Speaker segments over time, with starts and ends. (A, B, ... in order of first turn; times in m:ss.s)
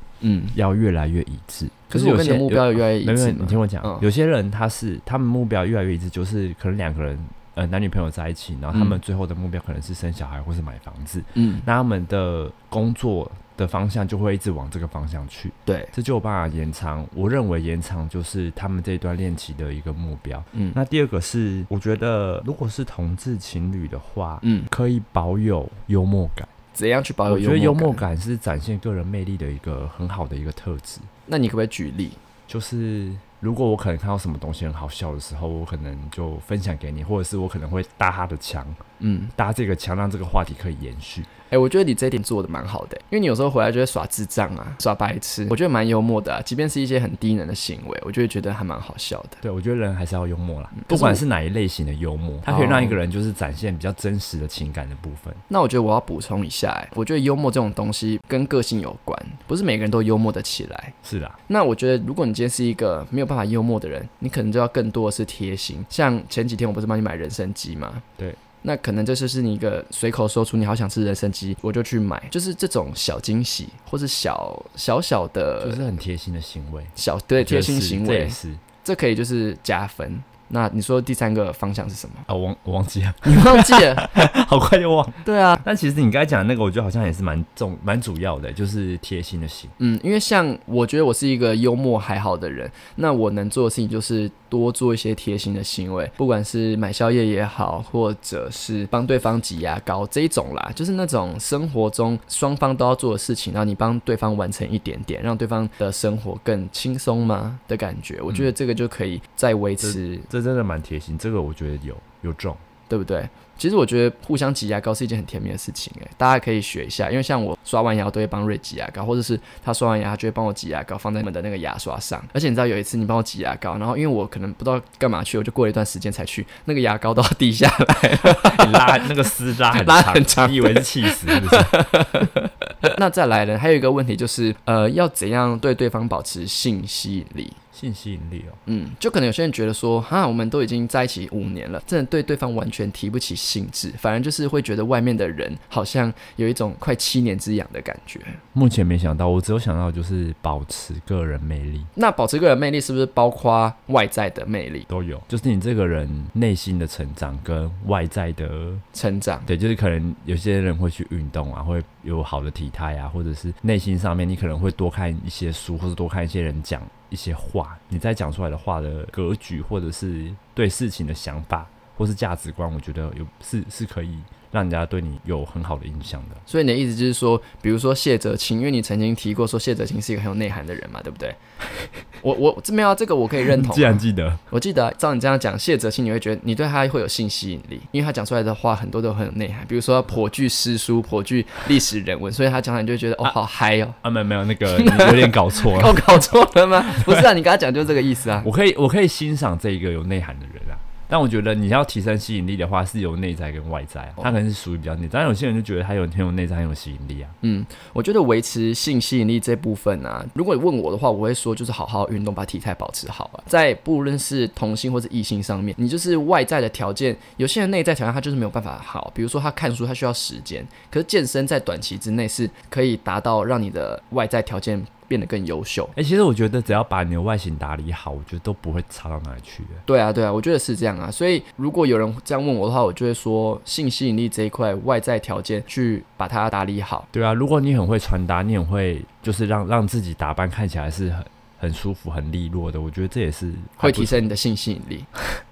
0:00.2-0:00.6 A
0:00.5-0:26.5 B
0:01.9-0:04.1 A
0:08.7-0:09.0 A
0:11.4-0:11.7 A
0:15.7-0:15.9 A
0:24.4-0:24.7 A
0:26.7-0:28.0 A
0:27.3-0:31.1 B
0:31.3-0:32.2 A
0:32.5-0:38.8 B
0:39.0-0:39.3 A
0:39.4-0:41.3 B
0:41.5-0:49.4 A
0:49.4-0:55.4 B
0:50.8-0:51.2 A
0:52.4-0:53.0 A
0:55.5-1:00.9 A
1:01.0-1:01.4 B
1:01.5-1:08.1 A
1:08.6-1:15.8 A
1:15.6-1:18.6 B
1:17.0-1:22.2 A
1:22.3-1:29.7 B
1:23.2-1:24.2 A
1:25.2-1:25.6 A
1:29.8-1:50.3 A
1:49.8-1:52.6 B
1:52.9-2:09.1 A
2:08.2-2:11.8 B
2:09.7-2:17.6 A
2:17.7-2:18.6 B
2:18.7-2:28.4 A
2:28.5-2:31.9 B
2:32.0-2:34.9 A
2:34.9-2:38.8 B
2:38.9-2:39.5 A
2:39.4-2:56.4 B
2:56.5-3:01.4 A
3:02.2-3:14.0 A
3:03.5-3:04.4 B
3:14.0-3:16.2 B
3:14.7-3:18.5 A
3:17.0-3:17.3 B
3:18.4-3:27.4 B
3:27.4-3:45.9 A
3:45.9-3:49.8 B
3:49.9-3:57.1 A
3:57.1-4:04.2 B
4:03.8-4:05.1 A